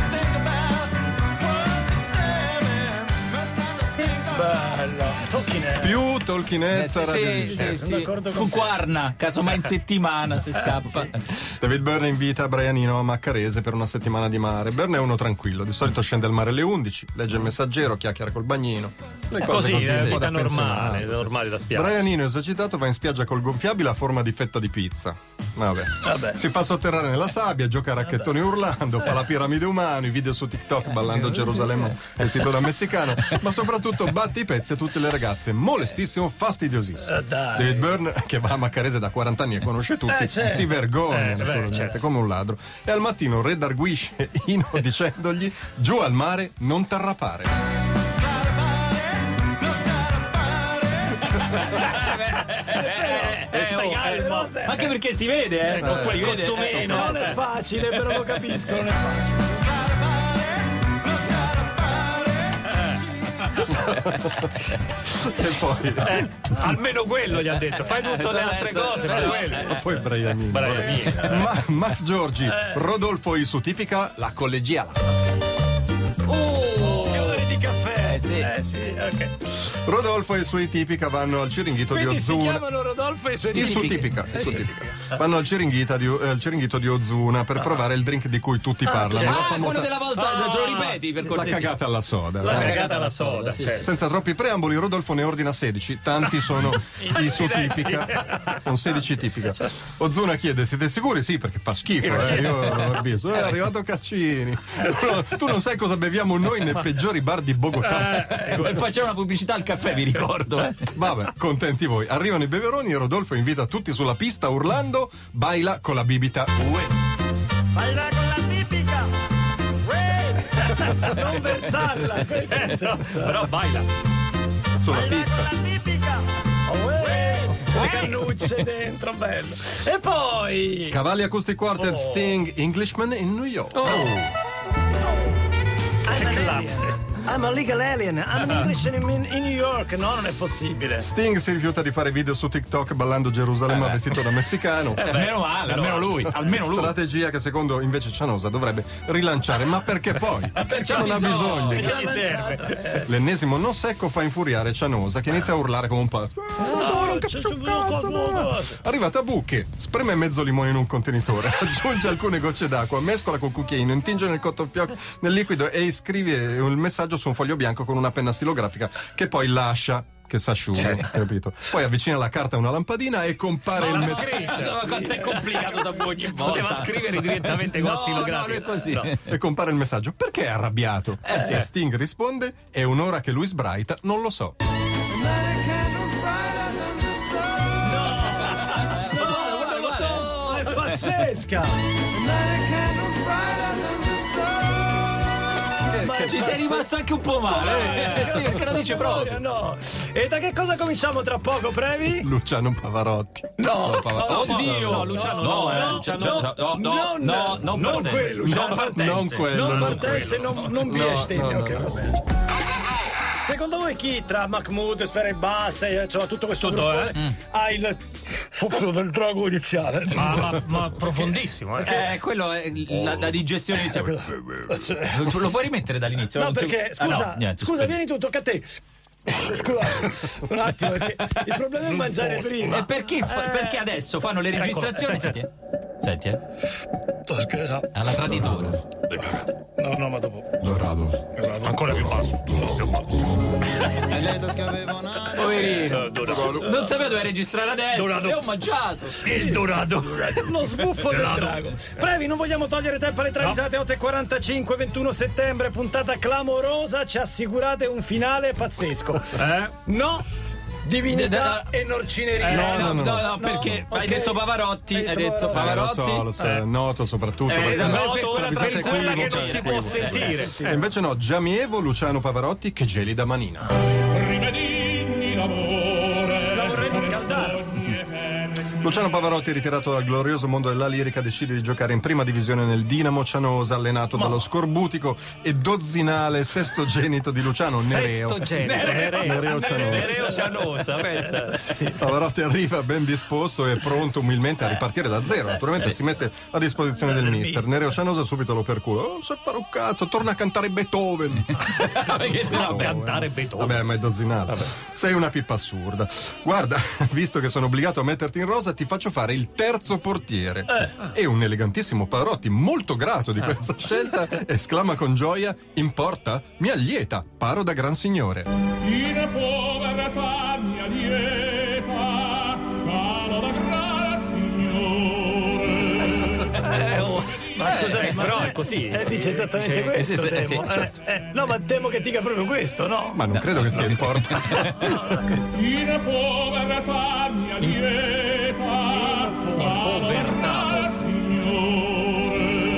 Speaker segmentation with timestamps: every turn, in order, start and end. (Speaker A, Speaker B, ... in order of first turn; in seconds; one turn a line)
Speaker A: 1.9-3.0
Speaker A: 4.0-6.1
Speaker B: 5.8-7.8
Speaker C: 6.7-11.2
Speaker A: 7.2-8.8
Speaker B: 11.4-47.5
Speaker D: 19.4-22.0
Speaker C: 19.8-20.2
Speaker A: 26.1-26.4
Speaker A: 37.0-38.0
Speaker A: 40.1-40.7
Speaker D: 41.1-42.0
Speaker C: 51.2-58.5
Speaker A: 51.8-54.9
Speaker D: 53.5-54.4
Speaker D: 55.7-57.4
Speaker B: 55.8-56.5
Speaker A: 56.4-59.7
Speaker D: 62.7-63.0
Speaker B: 63.6-66.6
Speaker D: 66.1-69.7
Speaker C: 67.7-69.8
Speaker B: 69.3-75.0
Speaker D: 70.5-71.5
Speaker A: 72.5-72.8
Speaker C: 76.3-77.4
Speaker A: 76.8-79.4
Speaker C: 78.0-78.5
Speaker B: 79.6-82.6
Speaker A: 81.9-84.6
Speaker B: 83.5-90.0
Speaker C: 83.5-84.7
Speaker C: 89.0-91.8
Speaker D: 90.4-91.0
Speaker A: 91.2-91.4
Speaker B: 91.2-92.9
Speaker C: 92.4-93.9
Speaker D: 92.4-93.9
Speaker B: 93.8-108.4
Speaker D: 97.6-98.3
Speaker C: 102.6-103.4
Speaker C: 108.0-111.0
Speaker B: 111.0-116.8
Speaker A: 117.8-119.1
Speaker A: 119.8-123.5
Speaker D: 122.3-123.9
Speaker B: 124.8-125.5
Speaker A: 124.9-131.0
Speaker D: 127.8-128.1
Speaker B: 130.9-134.2
Speaker A: 131.8-132.4
Speaker D: 133.8-134.2
Speaker A: 133.8-134.2
Speaker A: 136.1-141.1
Speaker D: 136.1-136.9
Speaker B: 141.0-145.1
Speaker C: 143.7-144.0
Speaker D: 145.0-146.4
Speaker C: 145.0-147.0
Speaker B: 146.4-152.1
Speaker D: 150.6-152.9
Speaker A: 150.8-153.2
Speaker C: 151.2-151.4
Speaker B: 153.1-174.6
Speaker A: 156.6-158.8
Speaker D: 173.7-175.5
Speaker C: 173.8-179.2
Speaker A: 174.8-175.6
Speaker D: 176.2-179.1
Speaker B: 179.3-184.6
Speaker C: 181.2-181.6
Speaker A: 185.4-187.0
Speaker A: 187.7-196.9
Speaker C: 188.2-191.1
Speaker B: 195.8-196.3
Speaker C: 196.2-199.4
Speaker A: 197.4-202.3
Speaker B: 202.2-204.9
Speaker A: 203.6-212.2
Speaker C: 204.2-209.5
Speaker D: 204.3-206.5
Speaker B: 208.5-212.0
Speaker D: 209.6-211.1
Speaker A: 213.4-221.3
Speaker D: 216.6-217.3
Speaker D: 220.1-222.1
Speaker C: 221.8-228.0
Speaker A: 224.1-225.2
Speaker A: 226.3-228.7
Speaker A: 229.3-233.8
Speaker C: 232.6-235.5
Speaker D: 234.5-235.4
Speaker C: 236.0-236.4
Speaker A: 237.3-238.1
Speaker C: 237.9-238.8
Speaker D: 238.1-238.5
Speaker A: 239.2-241.7
Speaker D: 241.4-243.3
Speaker C: 245.2-249.5
Speaker D: 245.7-246.5
Speaker D: 247.9-248.4
Speaker D: 249.2-251.8
Speaker A: 249.3-260.2
Speaker D: 259.4-259.7
Speaker A: 260.9-265.9
Speaker C: 261.1-261.7
Speaker D: 262.4-262.8
Speaker B: 262.5-263.4
Speaker C: 262.5-266.3
Speaker B: 265.5-273.7
Speaker C: 267.5-270.4
Speaker D: 267.5-270.6
Speaker A: 270.0-270.8
Speaker E: 274.9-275.6
Speaker D: 275.5-276.1
Speaker A: 276.3-277.8
Speaker B: 278.8-290.3
Speaker A: 284.1-284.5
Speaker D: 287.8-291.8
Speaker C: 288.6-290.8
Speaker A: 289.6-292.1
Speaker B: 291.9-318.5
Speaker A: 295.3-295.7
Speaker A: 297.1-297.9
Speaker C: 301.5-303.0
Speaker D: 302.2-304.7
Speaker E: 319.2-324.9
Speaker D: 323.6-323.9
Speaker A: 326.1-333.2
Speaker C: 327.6-328.1
Speaker D: 327.7-330.0
Speaker C: 329.9-330.9
Speaker B: 333.1-335.0
Speaker C: 333.7-334.9
Speaker A: 334.4-336.1
Speaker E: 336.1-337.5
Speaker A: 338.6-340.4
Speaker D: 339.6-342.1